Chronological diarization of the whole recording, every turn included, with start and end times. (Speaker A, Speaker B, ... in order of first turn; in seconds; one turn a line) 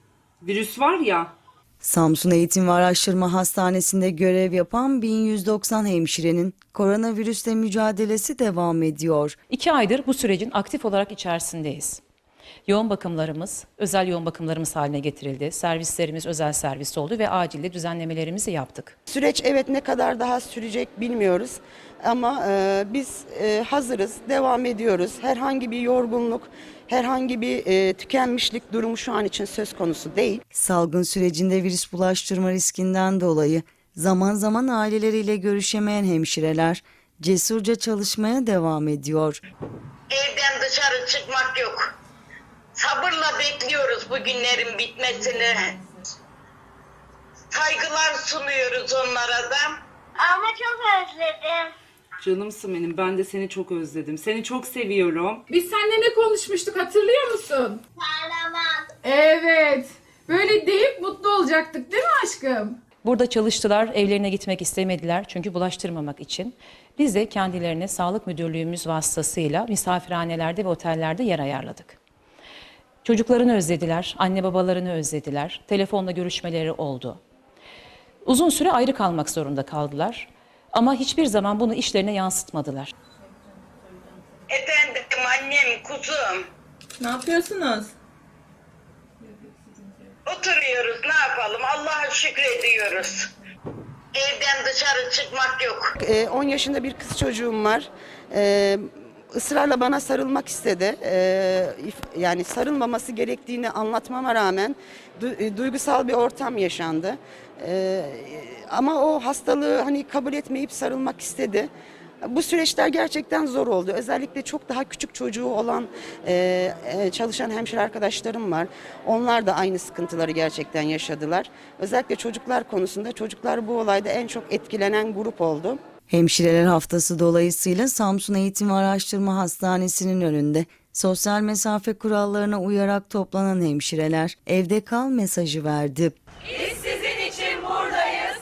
Speaker A: 0.4-1.3
Speaker B: 1.8-9.4
Speaker C: 9.5-12.0
Speaker C: 12.7-18.9
Speaker D: 19.1-30.4
Speaker B: 30.5-39.4
Speaker E: 40.1-41.9
Speaker E: 42.8-45.7
Speaker E: 47.5-49.7
Speaker F: 50.2-51.7
Speaker A: 52.2-55.4
Speaker G: 55.5-57.8
Speaker F: 58.0-58.9
Speaker G: 59.0-62.8
Speaker C: 63.0-72.0
Speaker C: 73.0-77.2
Speaker C: 78.2-82.9
Speaker E: 84.5-86.4
Speaker E: 90.2-93.3
Speaker E: 94.1-95.9
Speaker D: 96.0-111.7
Speaker D: 112.2-125.8
Speaker B: 126.1-136.2